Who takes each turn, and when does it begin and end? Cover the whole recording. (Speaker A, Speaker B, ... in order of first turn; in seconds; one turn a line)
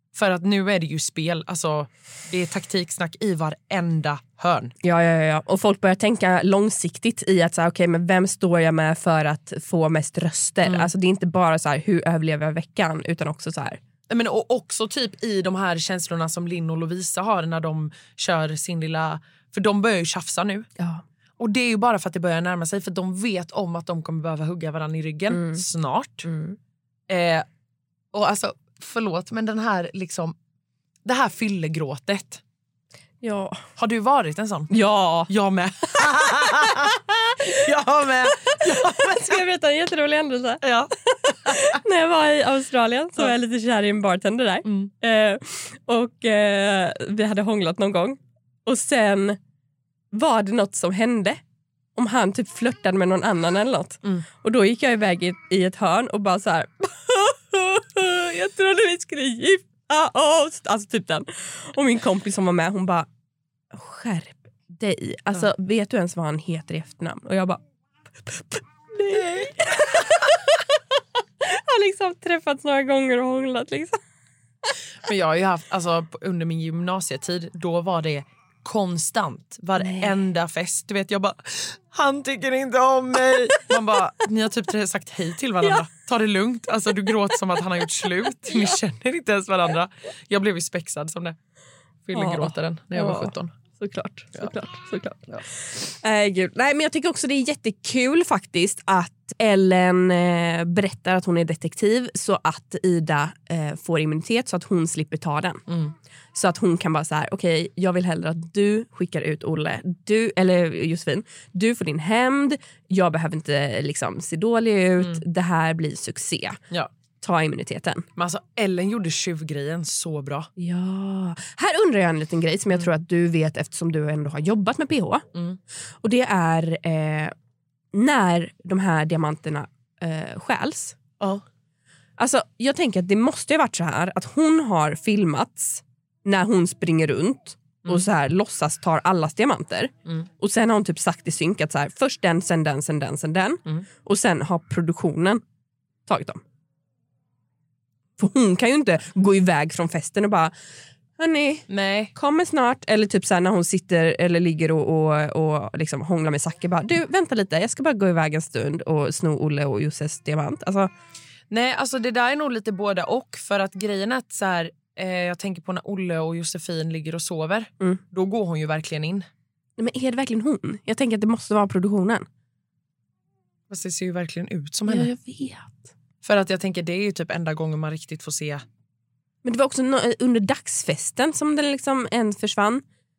Speaker A: 0.1-4.7
Speaker B: 4.8-13.8
Speaker A: 10.6-10.9
Speaker A: 14.1-20.7
Speaker A: 21.4-26.3
Speaker B: 25.3-25.6
Speaker B: 26.2-26.6
Speaker A: 27.1-27.5
Speaker A: 28.1-30.4
Speaker A: 31.1-32.4
Speaker B: 33.2-33.6
Speaker A: 33.8-34.8
Speaker B: 34.7-35.3
Speaker A: 35.3-39.4
Speaker B: 36.2-37.3
Speaker B: 38.5-40.6
Speaker A: 40.6-41.8
Speaker B: 41.5-49.4
Speaker A: 44.6-44.9
Speaker B: 50.1-51.4
Speaker B: 52.0-63.1
Speaker B: 63.7-67.6
Speaker B: 68.2-70.6
Speaker B: 71.4-74.0
Speaker A: 75.1-91.4
Speaker B: 79.8-80.2
Speaker B: 88.5-88.8
Speaker A: 92.1-93.5
Speaker B: 92.1-105.6
Speaker A: 105.7-105.9
Speaker B: 106.3-116.6
Speaker A: 115.0-115.2
Speaker B: 117.2-118.0
Speaker A: 118.2-120.5
Speaker B: 120.6-125.2
Speaker B: 126.0-127.3
Speaker B: 127.9-131.0
Speaker B: 132.2-145.4
Speaker B: 146.1-146.4
Speaker B: 148.2-150.5
Speaker B: 151.2-160.9
Speaker A: 151.7-152.1
Speaker A: 161.5-169.3
Speaker B: 169.8-172.3
Speaker A: 173.7-175.1
Speaker B: 174.9-175.9
Speaker A: 176.2-178.6
Speaker B: 179.4-182.8